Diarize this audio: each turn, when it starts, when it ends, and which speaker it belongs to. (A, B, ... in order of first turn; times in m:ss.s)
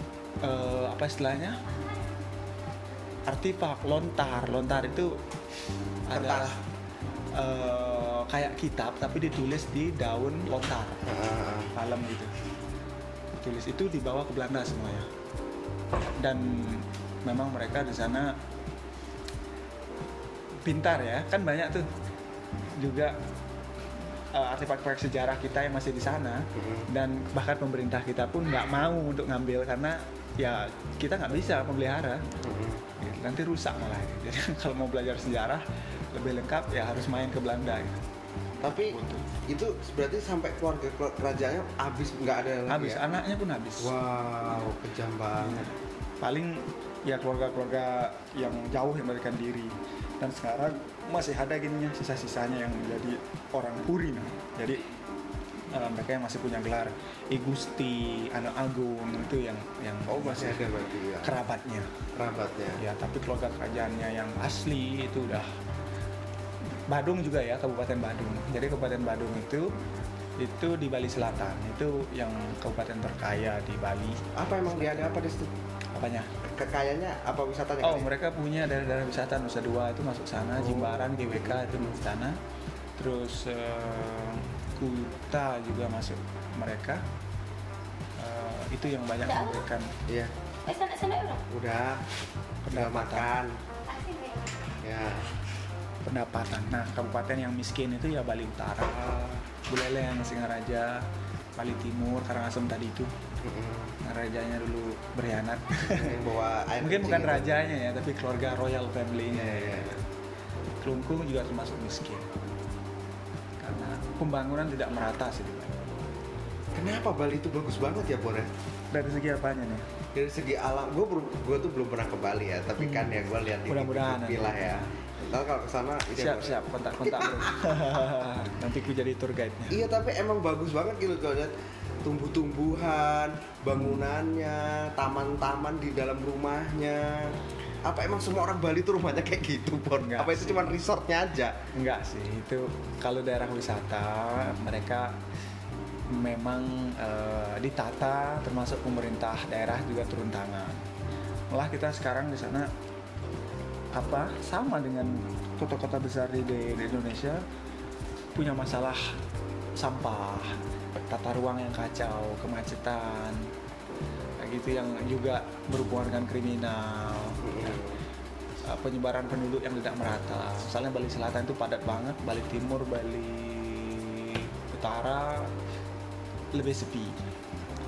0:00.4-0:01.6 A
0:03.3-0:05.2 A
0:06.1-0:06.6 A
0:06.1-0:06.5 B
0:07.3-0:11.0 A
0:11.0-0:11.7 B
0:11.7-0:12.3 A
0:13.3-0:15.1 A
0:16.2-0:18.4 A
0:20.6-0:21.9 A
0:22.7-0:23.2 A
0:24.3-0:32.2 A
0:26.5-0:26.9 B
0:32.4-0:32.8 B
0:33.0-0:38.0 A
0:38.6-0:43.0 B
0:38.7-0:39.2 A
0:42.7-0:44.0 A
0:43.8-0:45.7 B
0:45.4-0:54.8 A
0:55.7-1:00.7 A
1:00.1-1:01.4 B
1:01.2-1:01.9 A
1:02.1-1:02.8 B
1:02.8-1:05.5 A
1:06.9-1:09.8 A
1:10.4-1:15.1 A
1:14.3-1:15.5 B
1:15.9-1:16.3 A
1:16.4-1:18.1 B
1:17.8-1:22.4 A
1:20.6-1:22.0 B
1:23.0-1:27.0 A
1:28.2-1:29.9 A
1:29.2-1:29.7 C
1:30.1-1:30.3 B
1:30.6-1:31.4 C
1:31.5-1:32.0 B
1:32.6-1:33.3 A
1:32.7-1:33.6 B
1:33.8-1:34.6 C
1:34.8-1:35.3 B
1:36.0-1:41.1 A
1:41.6-1:43.1 A
1:43.4-1:44.0 B
1:44.0-1:46.2 A
1:45.8-1:47.5 B
1:46.8-1:50.0 A
1:49.3-1:50.0 B
1:50.8-1:52.3 A
1:53.6-1:55.8 A
1:56.7-1:58.5 B
1:58.9-1:59.8 A
2:00.1-2:07.8 B
2:02.8-2:03.1 A
2:03.7-2:04.8 A
2:06.2-2:09.8 A
2:09.7-2:21.6 B
2:13.8-2:14.0 A
2:20.0-2:20.7 A
2:21.7-2:25.2 A
2:26.1-2:30.8 A
2:31.5-2:32.7 A
2:33.9-2:37.4 A
2:38.3-2:39.1 A
2:39.8-2:43.5 A
2:44.4-2:47.8 A
2:47.4-2:48.0 B
2:48.7-2:55.5 A
2:56.6-2:57.2 A